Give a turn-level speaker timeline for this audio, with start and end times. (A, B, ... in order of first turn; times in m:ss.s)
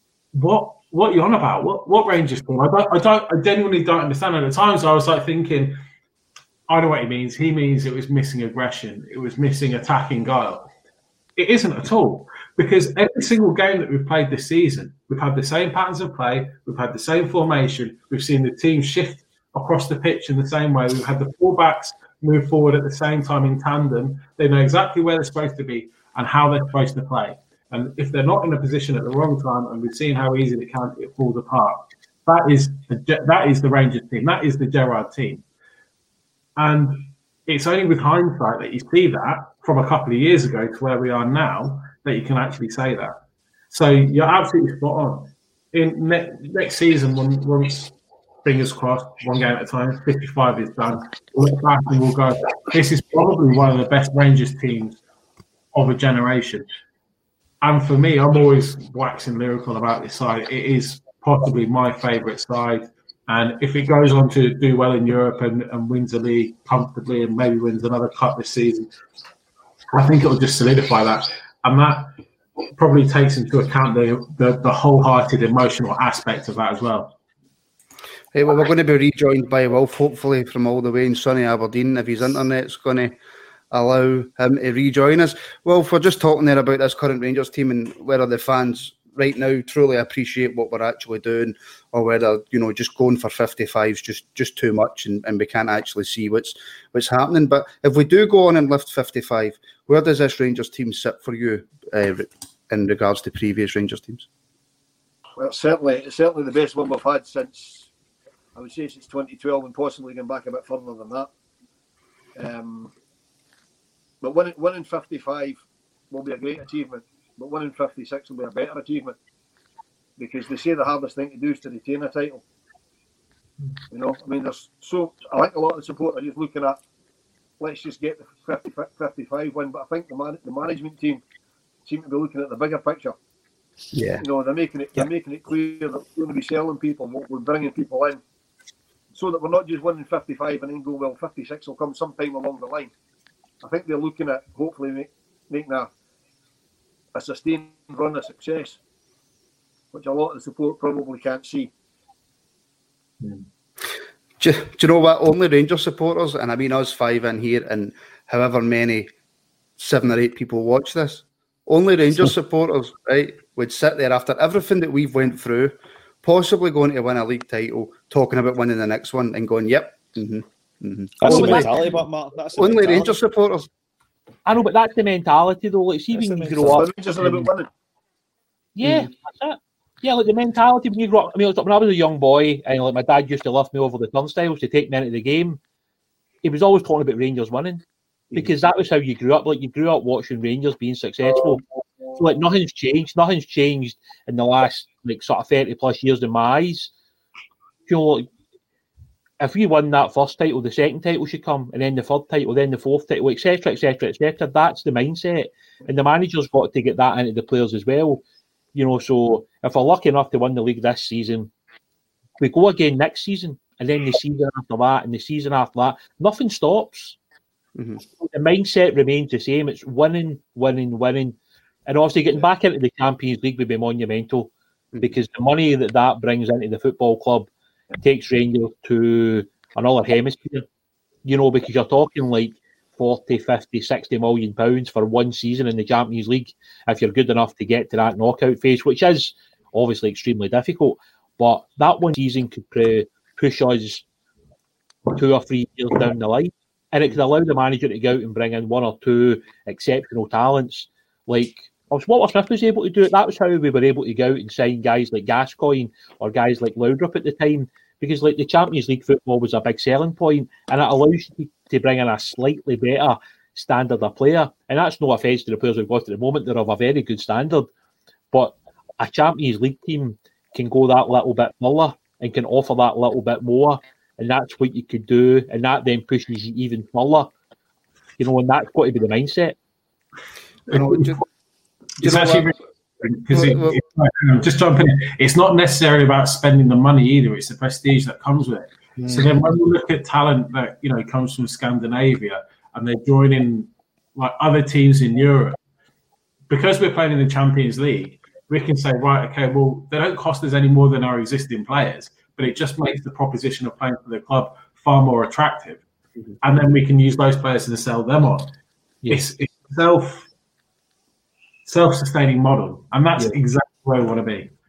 0:00.3-0:05.8 A
0:06.7-0:10.7 A
0:11.4-0:35.4 A
0:36.6-0:43.2 A
0:43.7-0:47.9 A
0:48.4-0:55.0 A
0:55.7-0:56.7 A
0:57.6-1:08.9 A
1:09.9-1:12.1 A
1:12.8-1:17.2 A
1:18.3-1:23.1 B
1:23.7-1:44.3 B
1:45.4-1:47.9 C
1:48.6-1:51.3 C
1:52.4-1:52.9 C
1:54.2-1:59.2 C
2:00.2-2:02.4 C
2:03.9-2:06.8 C
2:07.6-2:11.2 C
2:11.9-2:13.2 C
2:13.9-2:14.2 B
2:14.2-2:18.2 C
2:19.1-2:22.9 C
2:23.6-2:25.9 C
2:27.1-2:28.8 C
2:29.9-2:31.7 C
2:34.4-2:39.1 B
2:39.8-2:51.9 B
2:51.2-2:53.2 D
2:51.2-2:51.7 E
2:52.6-2:53.7 B
2:54.5-2:56.9 E
2:56.1-2:57.4 D
2:56.7-2:57.7 C
2:58.8-3:05.6 E
2:58.8-2:59.1 B
3:06.4-3:11.6 E
3:12.2-3:16.9 E
3:17.9-3:18.3 E
3:19.4-3:28.2 E
3:28.7-3:31.5 E
3:32.4-3:37.2 E
3:37.8-3:38.0 B
3:38.2-3:44.5 E
3:45.0-3:47.5 E
3:48.0-3:50.6 E
3:51.2-4:04.0 E
4:05.1-4:27.7 E
4:28.3-4:37.3 E
4:38.2-4:39.6 E
4:40.7-4:41.2 A
4:40.7-4:41.2 B
4:42.0-4:55.6 A
4:42.0-4:42.5 B
4:43.3-4:43.8 B
4:56.5-5:05.8 A
5:06.4-5:08.5 A
5:09.1-5:10.3 A
5:11.7-5:14.5 A